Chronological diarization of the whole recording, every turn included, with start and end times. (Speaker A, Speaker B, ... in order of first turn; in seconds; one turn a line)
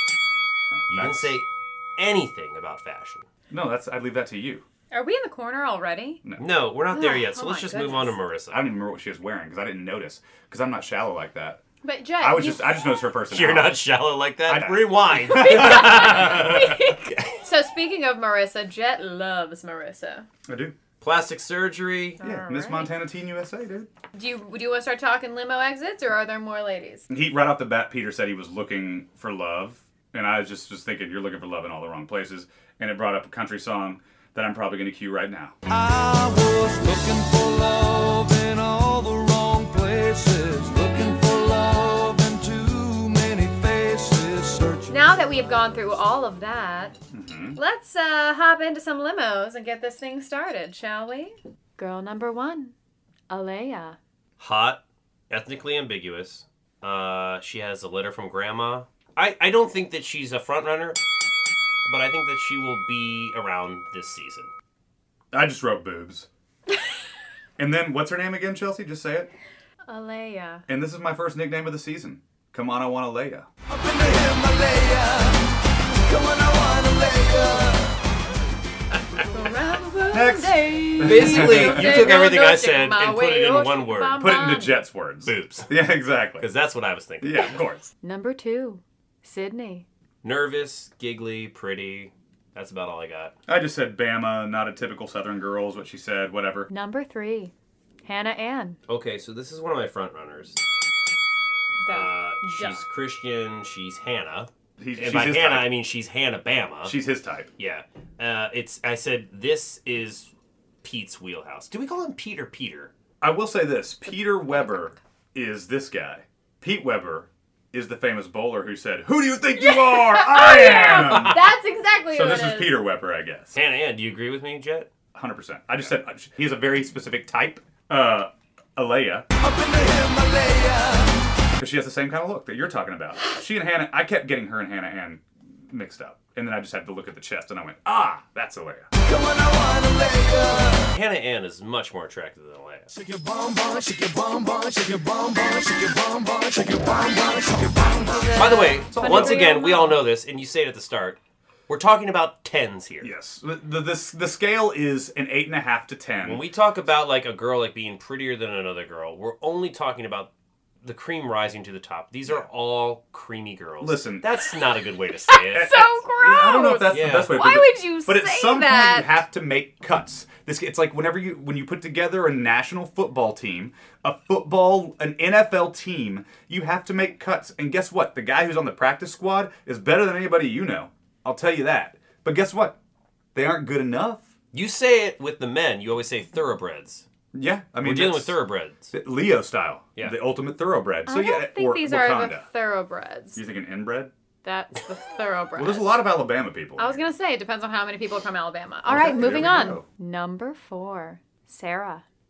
Speaker A: 0.8-1.4
Speaker B: 0.9-3.3
Speaker A: 3.5-4.6
Speaker C: 4.9-6.2
Speaker A: 6.2-6.5
Speaker B: 6.4-8.7
Speaker C: 6.9-8.2
Speaker A: 8.5-11.6
Speaker C: 11.8-13.0
Speaker A: 12.2-13.8
Speaker B: 13.3-17.4
Speaker A: 14.5-16.1
Speaker C: 15.3-20.3
Speaker A: 20.5-20.7
Speaker B: 21.0-22.2
Speaker C: 22.2-22.9
Speaker A: 22.2-23.9
Speaker C: 24.1-27.1
Speaker A: 27.1-35.5
Speaker D: 35.7-45.1
Speaker C: 44.9-47.0
Speaker A: 47.1-47.6
Speaker C: 47.6-52.7
Speaker C: 53.3-54.0
Speaker B: 54.4-61.0
Speaker B: 61.9-64.5
Speaker A: 65.3-66.3
Speaker A: 67.6-69.3
Speaker C: 69.9-70.7
Speaker A: 70.7-73.5
Speaker D: 73.7-78.0
Speaker C: 79.3-84.8
Speaker A: 80.1-82.1
Speaker B: 81.0-84.2
Speaker A: 84.2-86.5
Speaker B: 85.2-85.7
Speaker B: 86.4-87.6
Speaker A: 87.2-87.9
Speaker C: 88.0-89.9
Speaker B: 90.2-93.3
Speaker A: 93.5-96.7
Speaker C: 96.7-97.5
Speaker C: 98.0-98.8
Speaker B: 98.9-100.6
Speaker C: 101.8-102.8
Speaker B: 101.9-107.0
Speaker A: 104.8-105.7
Speaker A: 106.8-107.5
Speaker B: 107.6-110.3
Speaker B: 110.8-112.9
Speaker A: 113.2-121.4
Speaker C: 119.6-122.8
Speaker B: 120.9-121.4
Speaker A: 122.1-123.6
Speaker B: 123.5-124.9
Speaker A: 125.1-129.3
Speaker D: 129.4-131.2
Speaker A: 131.6-138.9
Speaker D: 139.0-140.9
Speaker B: 140.9-142.9
Speaker D: 142.9-148.4
Speaker C: 148.1-150.0
Speaker B: 148.4-153.1
Speaker A: 148.8-149.4
Speaker A: 153.0-156.4
Speaker B: 156.2-160.3
Speaker B: 160.8-165.8
Speaker A: 163.8-164.3
Speaker C: 165.3-169.2
Speaker A: 165.5-182.8
Speaker B: 166.9-167.5
Speaker A: 183.3-184.3
Speaker B: 184.5-187.1
Speaker A: 187.3-188.4
Speaker B: 187.8-188.9
Speaker A: 188.9-192.5
Speaker C: 191.1-193.4
Speaker A: 193.3-194.1
Speaker C: 194.4-195.9
Speaker A: 195.6-197.0
Speaker C: 196.8-202.0
Speaker A: 198.9-199.8
Speaker B: 198.9-199.8